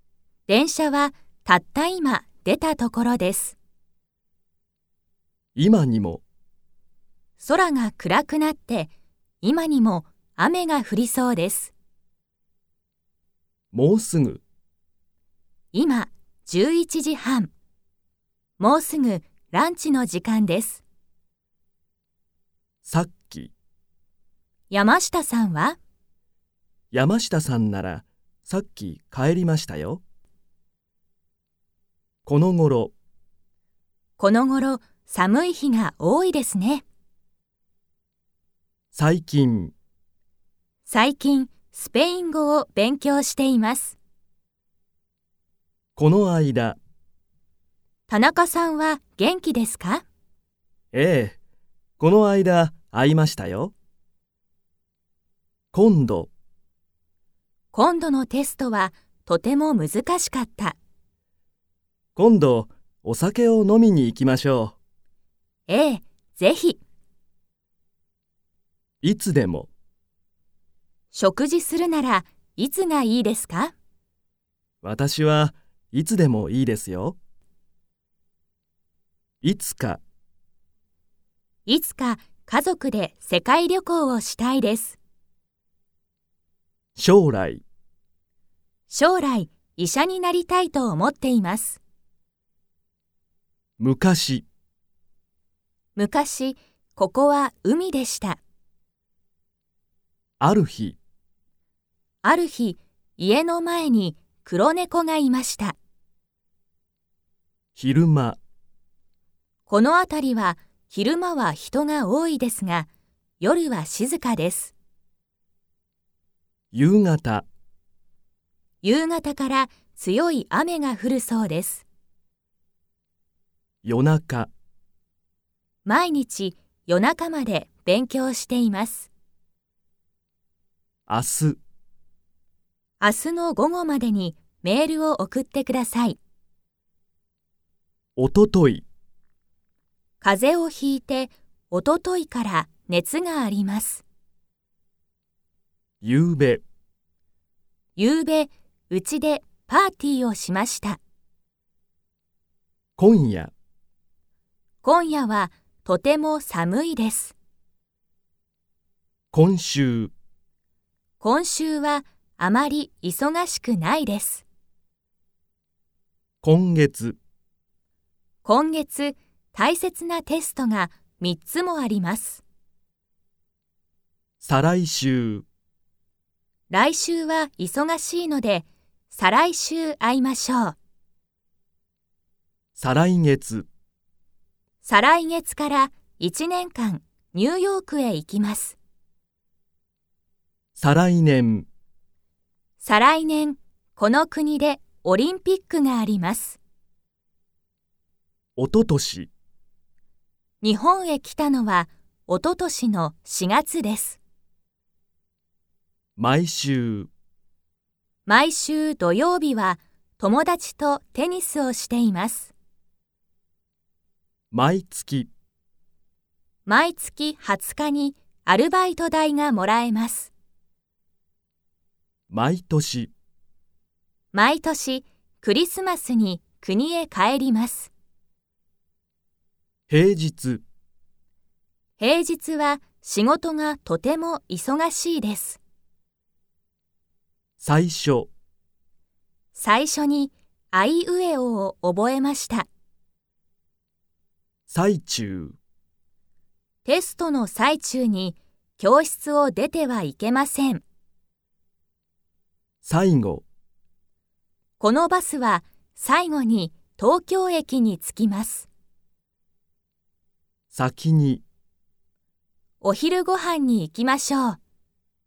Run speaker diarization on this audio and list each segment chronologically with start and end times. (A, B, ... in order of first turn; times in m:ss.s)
0:00.5-0:03.6 A
0:05.6-0:06.2 B
0:07.4-0:08.9 A
0:09.4-0:11.7 A
0:13.7-0:14.4 B
0:15.7-0:17.5 A
0:18.6-0:20.8 A
0:22.8-0:23.5 B
0:24.7-0:25.8 A
0:26.9-0:30.0 B
0:32.3-0:32.9 B
0:34.2-0:36.8 A
0:38.9-0:39.7 B
0:40.9-0:44.0 A
0:46.0-0:46.8 B
0:48.1-0:50.0 A
0:50.9-0:51.4 B
0:52.0-0:53.7 B
0:55.7-0:56.3 B
0:57.7-1:00.8 A
1:02.2-1:04.8 B
1:05.7-1:06.8 A
1:09.0-1:09.7 B
1:11.1-1:13.7 A
1:14.8-1:17.2 B
1:19.4-1:20.0 B
1:21.7-1:25.0 A
1:27.0-1:27.6 B
1:28.9-1:31.8 A
1:33.8-1:34.5 B
1:36.0-1:38.4 A
1:40.4-1:41.0 B
1:42.2-1:45.8 A
1:47.8-1:48.4 B
1:49.7-1:52.9 A
1:53.4-1:54.7 A
1:56.7-1:57.5 B
1:58.8-2:01.8 A
2:03.8-2:04.5 B
2:05.8-2:09.1 A
2:11.1-2:11.6 B
2:13.0-2:16.2 A
2:18.2-2:18.9 B
2:20.2-2:24.0 A
2:26.0-2:26.6 B
2:28.0-2:31.0 A
2:33.0-2:33.5 B
2:34.8-2:37.4 A
2:39.3-2:40.1 B
2:41.2-2:44.4 A
2:46.4-2:47.2 B
2:48.4-2:52.4 A
2:54.4-2:55.4 B
2:56.7-3:00.8 A
3:02.8-3:03.7 B
3:04.8-3:08.8 A
3:10.8-3:11.7 B
3:12.8-3:16.6 A
3:18.6-3:19.3 B
3:20.6-3:24.2 A
3:26.2-3:27.1 B
3:28.3-3:32.5 A
3:34.5-3:35.3 B
3:36.7-3:40.3 A
3:42.3-3:43.1 B
3:44.3-3:47.9 A
3:49.9-3:50.6 B
3:52.0-3:55.6 A
3:57.6-3:58.3 B
3:59.6-4:02.7 A
4:04.7-4:05.6 B
4:06.8-4:10.8 A
4:12.8-4:13.4 B
4:14.8-4:18.7 A
4:20.7-4:21.4 B
4:22.8-4:24.6 A